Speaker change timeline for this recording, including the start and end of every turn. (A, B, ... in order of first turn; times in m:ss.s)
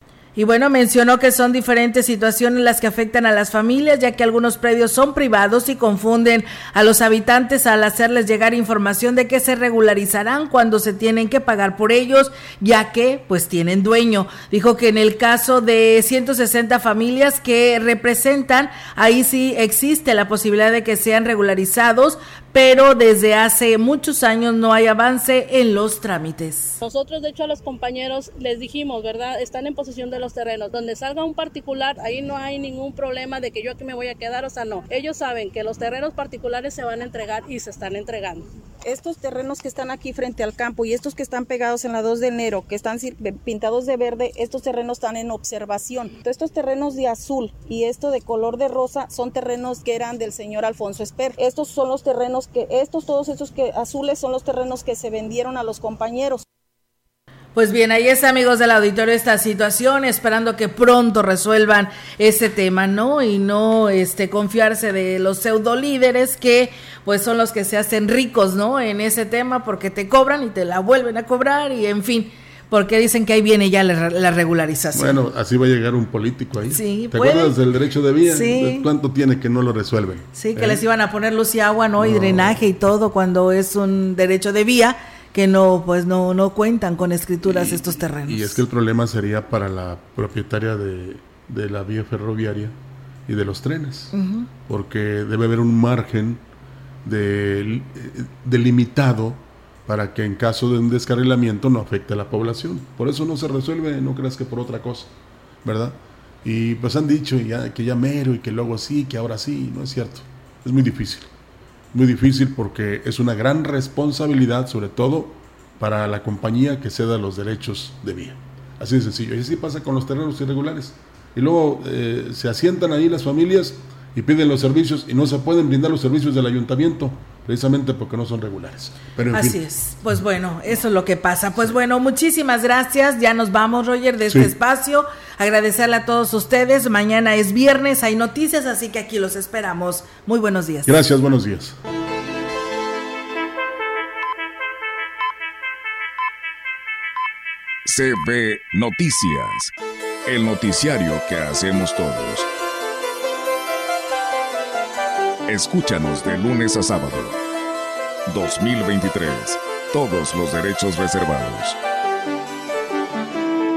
0:00.4-0:26.8 A
0:26.8-0:38.5 B
0:38.8-0:56.4 C
0:57.6-1:15.2 A
1:14.9-1:20.8 D
1:16.7-1:17.5 A
1:18.2-1:18.9 A
1:20.4-1:28.6 A
1:22.0-1:22.6 D
1:27.4-1:32.8 D
1:33.3-1:34.1 D
1:34.1-1:34.5 A
1:34.7-1:36.4 D
1:37.0-1:45.1 D
1:45.6-1:51.3 D
1:51.9-2:09.6 D
2:09.3-2:21.0 A
2:14.3-2:14.5 D
2:20.9-2:21.8 D
2:27.8-2:29.7 E
2:30.3-2:32.5 E
2:35.5-2:37.4 E
2:38.3-2:41.8 E